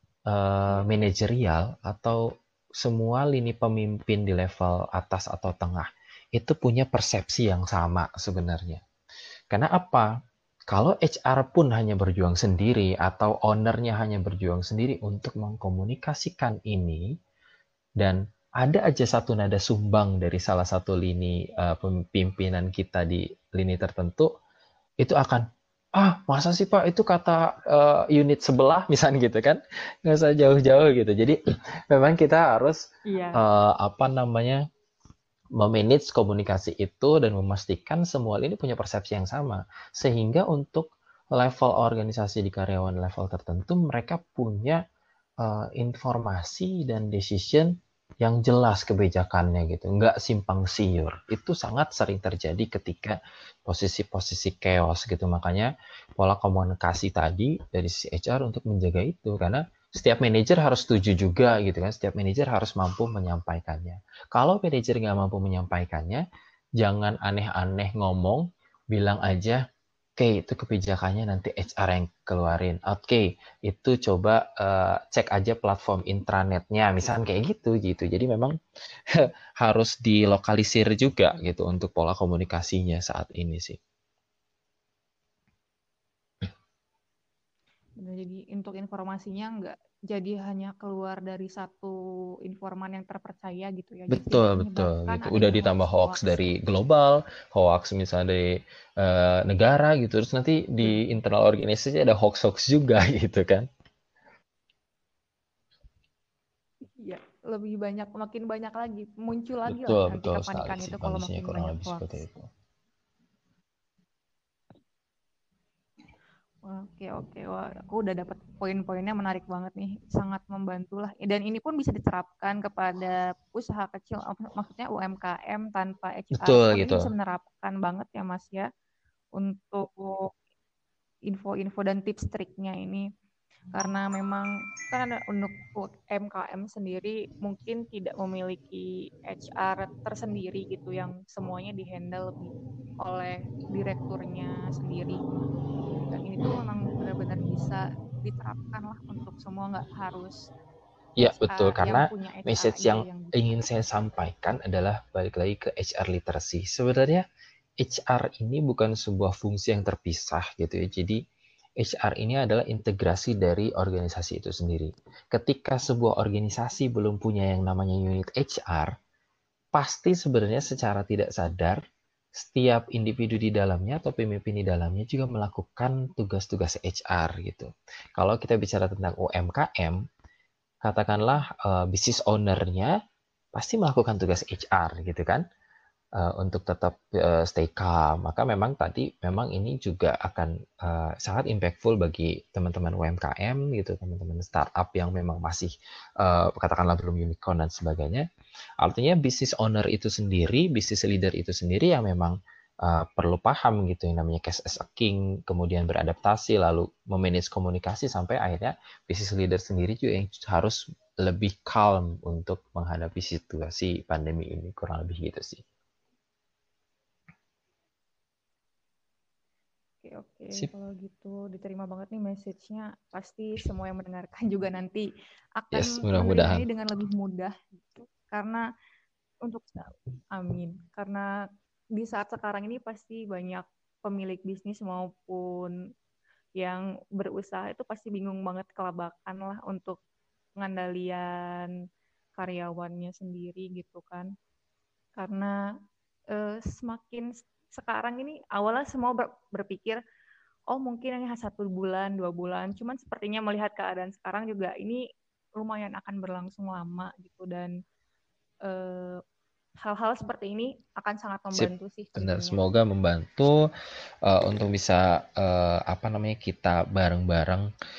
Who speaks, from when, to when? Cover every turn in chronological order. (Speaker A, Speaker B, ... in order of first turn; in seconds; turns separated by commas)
Speaker A: 0.3-8.8, Speaker A: 9.5-10.1, Speaker A: 10.7-17.1, Speaker A: 18.0-24.3, Speaker A: 25.0-31.4, Speaker A: 31.9-34.6, Speaker B: 33.1-33.4, Speaker A: 35.6-44.8, Speaker A: 45.4-66.2, Speaker A: 66.8-69.6, Speaker A: 70.2-78.6, Speaker A: 79.1-83.8, Speaker B: 88.0-91.9, Speaker B: 92.5-96.5, Speaker A: 94.1-103.7, Speaker B: 100.8-101.1, Speaker B: 106.8-112.3, Speaker A: 109.7-112.5, Speaker B: 116.6-128.7, Speaker A: 126.3-127.1, Speaker B: 129.4-130.3, Speaker B: 131.3-133.1, Speaker B: 133.7-145.2, Speaker B: 146.0-150.5, Speaker A: 151.2-157.2, Speaker B: 151.3-153.3, Speaker A: 157.8-161.2, Speaker A: 161.8-168.9, Speaker A: 169.7-171.8, Speaker A: 172.3-180.0, Speaker A: 180.8-182.9, Speaker A: 183.5-185.4, Speaker A: 186.2-198.3, Speaker A: 198.8-215.6, Speaker B: 220.0-225.1, Speaker B: 225.6-228.6, Speaker A: 225.7-226.6, Speaker B: 229.4-231.3, Speaker B: 232.0-235.7, Speaker B: 236.6-240.0, Speaker B: 240.6-241.7, Speaker B: 242.4-244.3, Speaker B: 245.2-245.6, Speaker B: 246.3-250.0, Speaker B: 250.7-255.0, Speaker B: 255.6-257.7, Speaker B: 258.6-259.2, Speaker B: 259.8-262.6, Speaker A: 261.5-263.7, Speaker A: 264.2-267.7